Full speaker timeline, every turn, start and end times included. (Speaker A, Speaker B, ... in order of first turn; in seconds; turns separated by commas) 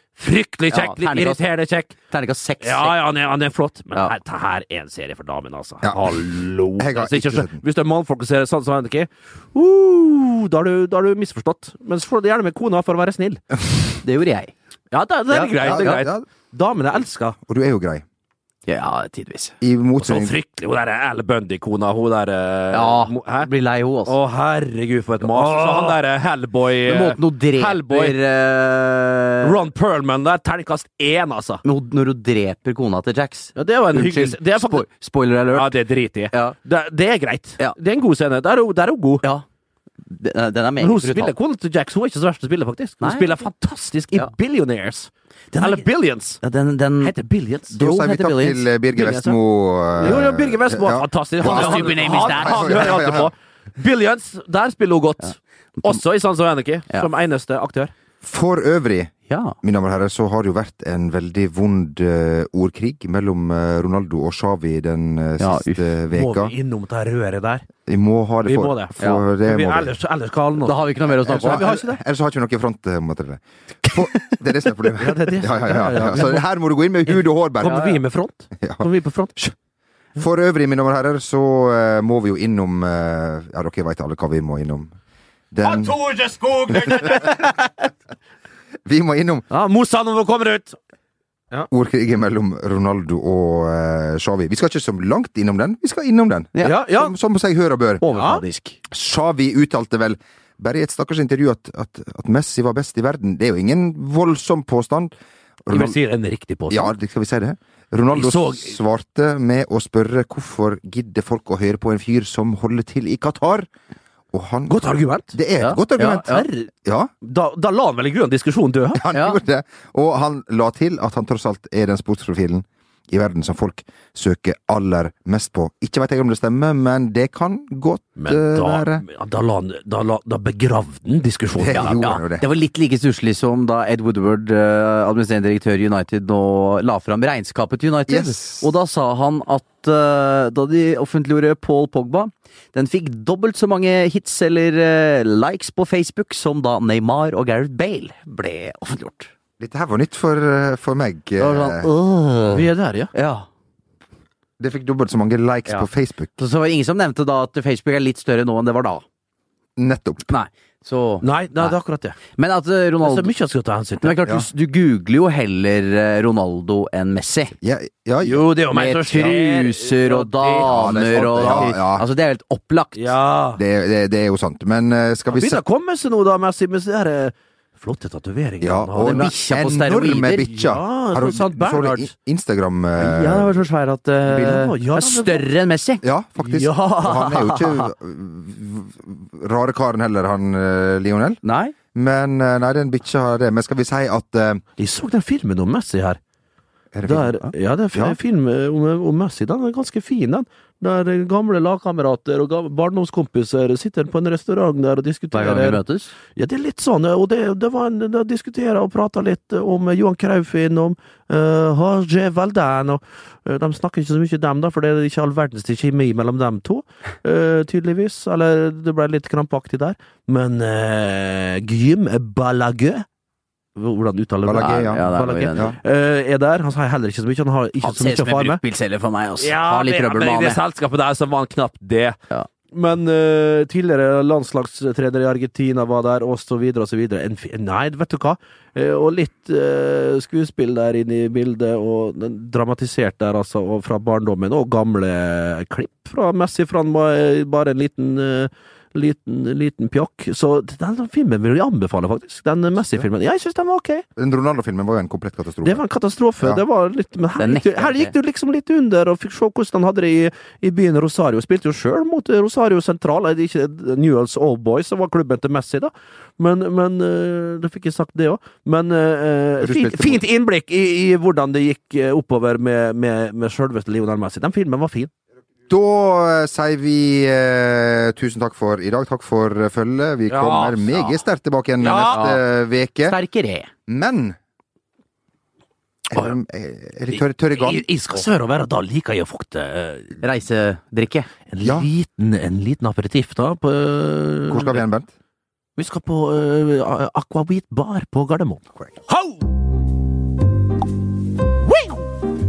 Speaker A: 0.2-1.9, Speaker B: 0.7-1.4, Speaker B: 2.1-3.0, Speaker A: 2.6-13.4, Speaker C: 5.8-7.6, Speaker B: 14.0-14.5, Speaker A: 14.9-17.4, Speaker B: 15.3-16.0, Speaker C: 15.6-16.3, Speaker C: 17.5-18.1, Speaker B: 18.7-19.6, Speaker C: 19.6-20.4, Speaker A: 20.0-23.5, Speaker B: 22.7-24.2, Speaker A: 24.1-28.2, Speaker B: 25.2-26.0, Speaker B: 26.9-29.6, Speaker A: 29.4-31.6, Speaker B: 31.6-36.6, Speaker A: 33.5-34.9, Speaker A: 35.5-39.3, Speaker B: 40.0-41.4, Speaker A: 40.8-46.4, Speaker B: 43.0-43.5, Speaker B: 45.5-45.9, Speaker B: 46.4-47.1, Speaker A: 47.0-47.8, Speaker B: 47.7-48.7, Speaker C: 47.8-53.3, Speaker A: 48.9-49.4, Speaker A: 50.0-57.9, Speaker B: 51.4-53.1, Speaker B: 55.2-56.0, Speaker C: 58.2-66.5, Speaker B: 59.3-59.5, Speaker B: 65.4-65.8, Speaker A: 66.1-67.7, Speaker C: 67.9-70.0, Speaker A: 68.5-72.0, Speaker B: 70.6-71.7, Speaker C: 71.2-77.9, Speaker A: 75.0-76.4, Speaker A: 77.6-79.4, Speaker B: 77.6-78.0, Speaker C: 78.6-79.5, Speaker C: 80.2-84.9, Speaker C: 85.5-86.1, Speaker A: 85.6-87.5, Speaker C: 86.7-87.3, Speaker C: 88.8-89.5, Speaker A: 89.5-90.8, Speaker C: 91.7-98.0, Speaker B: 96.5-96.8, Speaker A: 96.6-97.1, Speaker B: 98.0-98.8, Speaker A: 98.0-98.4, Speaker C: 98.9-105.1, Speaker C: 105.7-106.0, Speaker A: 105.7-106.9, Speaker C: 106.7-113.7, Speaker A: 108.1-108.8, Speaker C: 114.3-116.3, Speaker A: 114.7-115.3, Speaker B: 115.6-116.5, Speaker A: 116.1-116.7, Speaker C: 116.8-117.1, Speaker A: 117.2-119.0, Speaker C: 119.0-129.1, Speaker B: 119.1-119.4, Speaker A: 128.2-132.2, Speaker C: 131.6-132.5, Speaker B: 131.7-149.3, Speaker C: 138.1-138.7, Speaker C: 149.6-151.9, Speaker B: 151.4-153.5, Speaker A: 152.5-153.1, Speaker C: 154.6-156.3, Speaker B: 155.7-159.0, Speaker C: 159.8-160.3, Speaker B: 160.3-161.8, Speaker A: 161.2-162.2, Speaker B: 162.4-163.3, Speaker A: 163.0-164.2, Speaker B: 164.0-167.6, Speaker C: 167.6-168.5, Speaker A: 168.2-171.8, Speaker B: 168.7-173.2, Speaker C: 170.7-172.0, Speaker A: 172.9-173.6, Speaker C: 173.6-175.6, Speaker A: 175.3-179.3, Speaker C: 178.6-183.5, Speaker B: 179.0-180.5, Speaker A: 180.5-182.1, Speaker B: 183.0-186.0, Speaker A: 184.3-185.5, Speaker C: 186.0-191.4, Speaker A: 186.4-187.9, Speaker B: 191.4-191.7, Speaker C: 191.9-194.6, Speaker A: 194.8-196.2, Speaker C: 196.9-198.2, Speaker A: 197.1-205.8, Speaker B: 205.3-206.1, Speaker A: 206.3-223.1, Speaker A: 223.8-228.6, Speaker C: 224.4-225.0, Speaker B: 224.6-225.8, Speaker B: 227.8-230.6, Speaker A: 229.4-232.2, Speaker A: 232.7-254.1, Speaker C: 254.2-255.8, Speaker A: 255.6-275.1, Speaker B: 257.4-258.1, Speaker C: 269.6-270.2, Speaker C: 275.7-283.2, Speaker A: 280.3-281.2, Speaker A: 281.8-282.3, Speaker B: 281.9-282.4, Speaker B: 283.0-283.7, Speaker C: 283.9-284.4, Speaker C: 286.1-287.9, Speaker A: 287.1-290.2, Speaker B: 290.2-291.3, Speaker A: 291.5-294.8, Speaker C: 291.6-291.9, Speaker C: 294.5-295.1, Speaker A: 295.8-299.4, Speaker A: 301.6-302.1